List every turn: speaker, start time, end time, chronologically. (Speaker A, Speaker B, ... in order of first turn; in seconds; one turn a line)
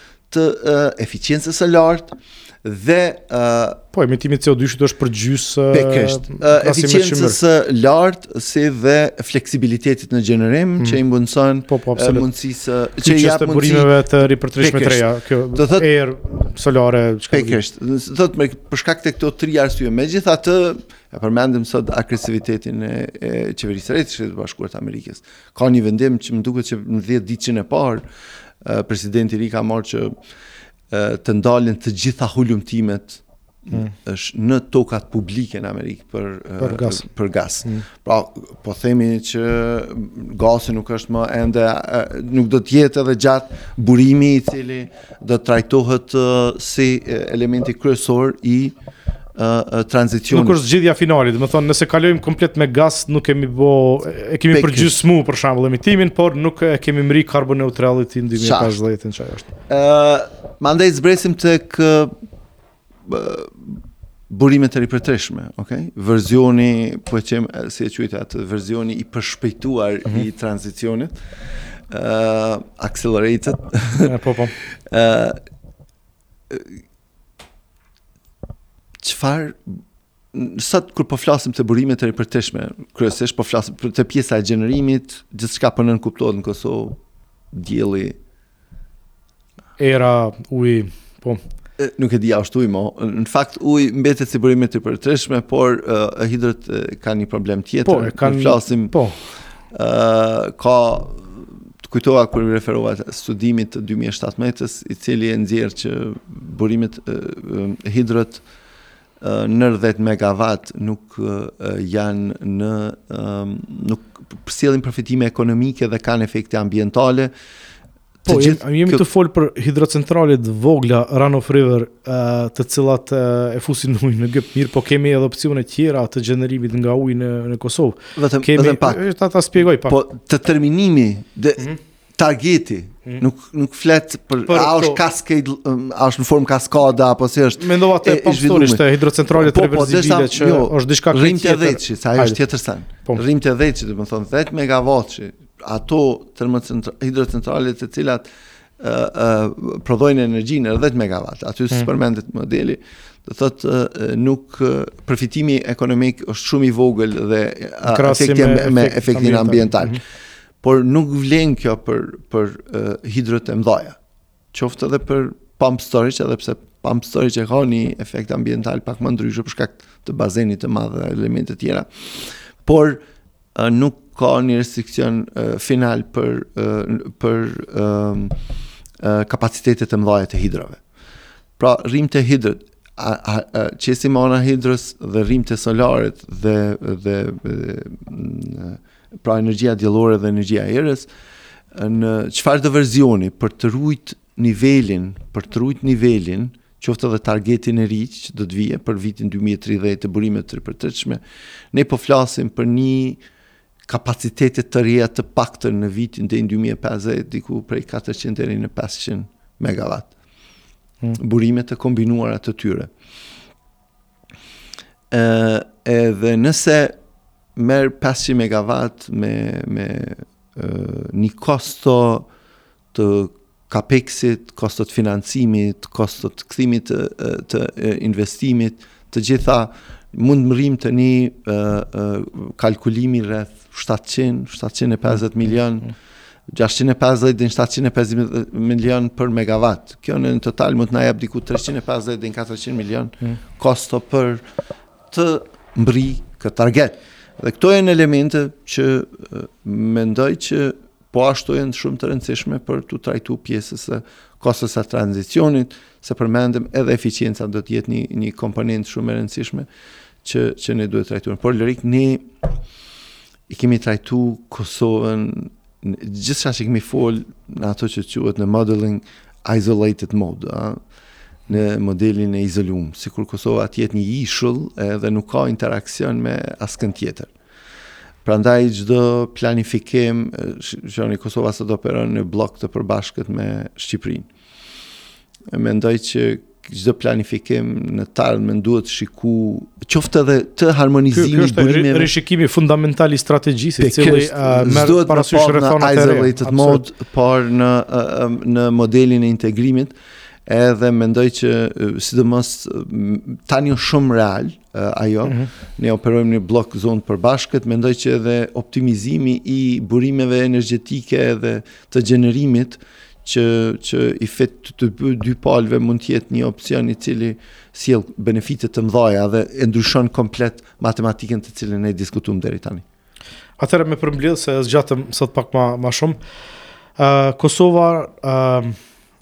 Speaker A: 0.3-3.8
Speaker B: 3.9-7.4
Speaker A: 5.7-14.0
Speaker B: 11.7-12.2
Speaker B: 13.0-17.6
Speaker A: 14.6-15.9
Speaker A: 17.3-28.0
Speaker A: 28.6-30.1
Speaker A: 30.9-48.7
Speaker B: 36.6-37.0
Speaker A: 49.4-50.6
Speaker B: 50.3-59.5
Speaker A: 54.5-54.9
Speaker A: 58.4-58.8
Speaker A: 59.7-62.1
Speaker A: 63.0-71.1
Speaker A: 71.9-74.1
Speaker B: 74.0-74.5
Speaker A: 74.8-75.4
Speaker A: 76.5-76.8
Speaker A: 79.0-79.7
Speaker A: 80.3-87.0
Speaker A: 87.5-88.2
Speaker B: 89.8-91.4
Speaker A: 91.8-99.0
Speaker B: 97.8-99.2
Speaker A: 99.7-108.4
Speaker A: 109.2-117.3
Speaker A: 118.2-119.0
Speaker B: 118.2-130.0
Speaker A: 128.2-129.0
Speaker A: 129.8-148.2
Speaker B: 134.5-135.0
Speaker B: 137.6-142.4
Speaker A: 148.8-160.0
Speaker B: 157.8-160.0
Speaker A: 160.6-164.0
Speaker A: 164.5-173.0
Speaker A: 173.5-178.4
Speaker A: 179.0-180.8
Speaker A: 181.6-191.1
Speaker A: 191.7-201.2
Speaker A: 201.7-203.2
Speaker A: 203.8-210.1
Speaker A: 211.2-212.9
Speaker A: 215.1-217.0
Speaker A: 217.6-222.3
Speaker A: 222.9-235.9
Speaker A: 236.5-244.4
Speaker A: 245.1-259.7
Speaker A: 260.2-262.6
Speaker A: 263.5-270.8
Speaker A: 271.5-277.3
Speaker A: 278.2-284.3
Speaker A: 285.5-292.1
Speaker B: 291.1-296.8
Speaker A: 293.8-299.9
Speaker A: 300.4-322.8
Speaker B: 323.6-326.2
Speaker B: 327.0-328.8